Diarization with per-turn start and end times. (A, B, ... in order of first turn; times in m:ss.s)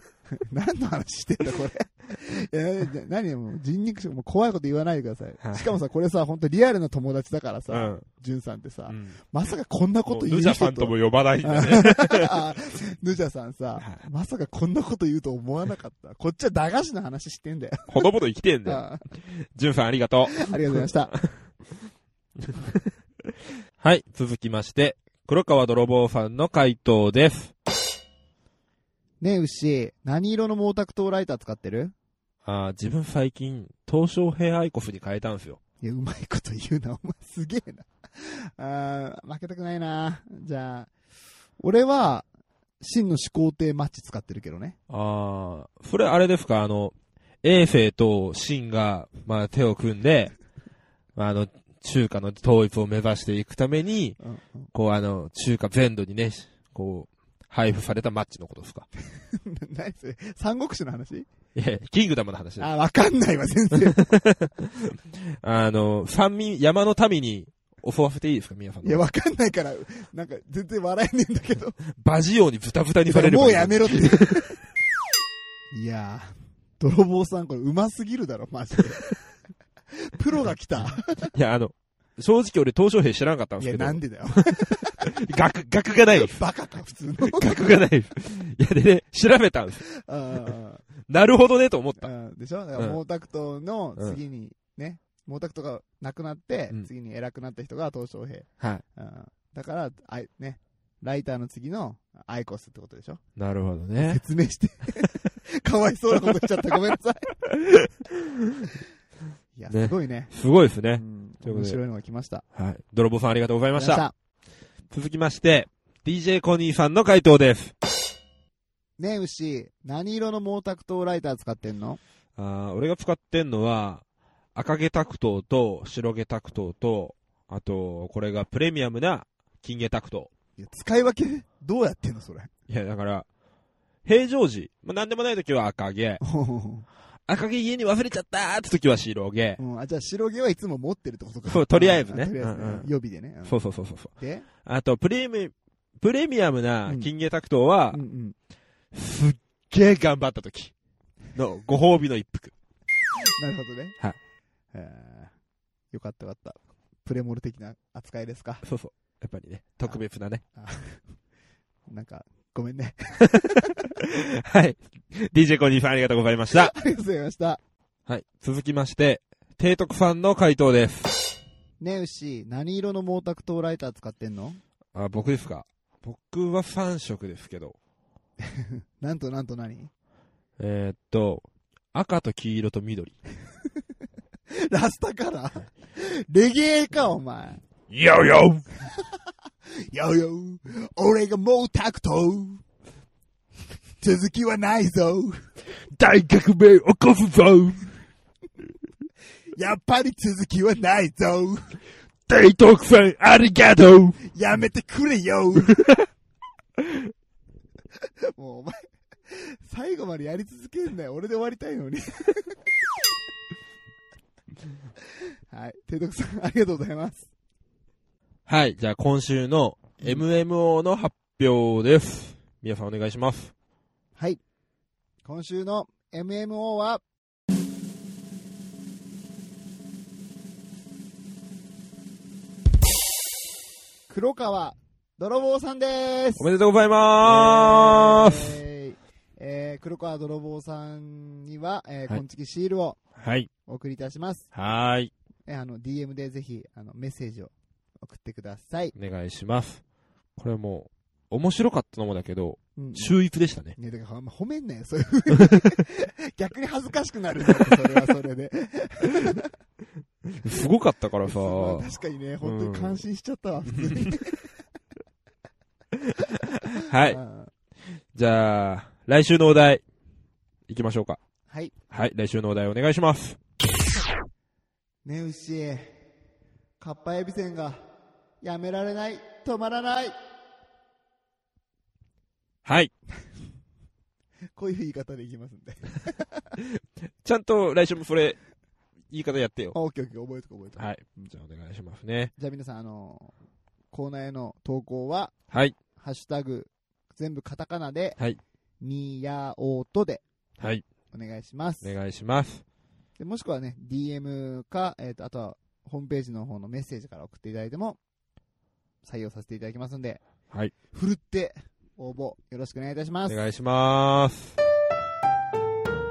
0:00.3-0:18.1 A
0:05.4-0:05.7 B
0:07.7-0:08.0 B
0:08.9-0:09.2 B
0:10.1-0:12.3 B
0:13.8-0:14.0 B
0:17.9-0:21.3 B
0:18.6-0:19.0 A
0:20.3-0:21.1 A
0:22.4-0:22.8 B
0:23.8-0:27.5 B
0:29.2-0:31.9 A
0:32.4-0:35.6 B
0:35.8-0:40.9 A
0:41.6-0:42.3 A
0:42.8-0:44.8 A
0:44.9-0:50.3 B
0:51.2-0:54.2 B
0:54.2-0:54.7 A
0:54.7-0:58.9 B
0:59.3-1:01.3 A
1:01.5-1:02.7 B
1:02.6-1:04.1 A
1:03.9-1:09.0 B
1:08.8-1:11.8 A
1:12.0-1:14.4 B
1:13.1-1:14.6 A
1:15.7-1:19.0 A
1:20.0-1:21.3 A
1:21.3-1:26.4 B
1:23.6-1:25.1 A
1:26.1-1:27.5 A
1:27.2-1:29.8 B
1:29.9-1:30.8 A
1:31.1-1:32.1 B
1:32.0-1:43.2 A
1:43.4-1:44.2 B
1:44.0-1:47.4 A
1:47.5-1:48.7 B
1:49.6-1:50.3 A
1:49.7-1:51.8 B
1:51.0-1:52.4 A
1:52.5-1:54.0 B
1:53.7-1:54.1 A
1:54.9-1:57.7 B
1:59.0-2:02.0 A
2:02.4-2:04.0 B
2:04.5-2:10.3 B
2:10.6-2:12.5 A
2:12.7-2:13.3 B
2:14.0-2:16.2 B
2:16.2-2:16.8 A
2:17.3-2:19.6 B
2:19.6-2:23.6 A
2:21.5-2:22.9 B
2:23.4-2:24.1 B
2:24.2-2:24.5 A
2:24.6-2:28.0 B
2:27.9-2:28.4 A
2:28.9-2:30.7 B
2:31.3-2:32.5 B
2:33.4-2:34.0 A
2:34.7-2:35.3 A
2:35.9-2:38.6 A
2:38.6-2:40.4 B
2:40.6-2:41.0 A
2:41.9-2:43.9 A
2:44.0-2:46.7 B
2:46.5-2:47.6 A
2:48.1-2:51.2 B
2:51.8-2:54.6 A
2:54.9-2:57.8 B
2:58.4-2:59.9 A
3:00.6-3:03.2 B
3:04.6-3:07.6 A
3:07.9-3:08.6 B
3:08.9-3:09.2 A
3:09.8-3:12.6 A
3:14.0-3:15.4 A
3:15.9-3:17.9 B
3:19.6-3:21.8 A
3:22.3-3:24.2 B
3:24.3-3:25.9 A
3:28.4-3:32.6 A
3:35.5-3:37.3 A
3:38.5-3:43.5 B
3:45.2-3:47.0 A
3:54.1-3:56.5 A
3:56.4-3:58.6 B
3:57.2-4:03.0 A
4:03.2-4:03.5 B
4:03.6-4:04.5 A
4:04.5-4:05.1 B
4:05.5-4:08.9 A
4:09.0-4:09.8 B
4:10.4-4:13.8 B
4:12.8-4:13.2 A
4:13.8-4:19.5 A
4:20.4-4:21.8 B
4:21.2-4:24.4 A
4:22.4-4:23.0 B
4:23.7-4:24.1 B
4:26.7-4:27.2 B
4:27.1-4:27.5 A
4:28.1-4:29.8 B
4:30.7-4:31.2 B
4:31.9-4:33.4 B
4:35.0-4:36.0 A
4:36.8-4:37.8 A
4:38.4-4:40.2 A
4:42.6-4:42.9 B
4:44.6-4:46.5 A
4:47.2-4:48.4 B
4:49.1-4:49.8 B
4:49.7-4:51.3 A
4:50.8-4:52.3 B
4:52.4-4:53.3 A
4:53.9-4:55.3 A
4:55.5-4:55.8 B
4:56.0-4:58.2 A
4:58.8-5:00.2 A
5:00.6-5:00.8 B
5:01.1-5:01.9 A
5:01.8-5:02.6 B
5:03.2-5:08.0 A
5:09.0-5:10.2 A
5:10.9-5:13.4 A
5:13.3-5:14.6 B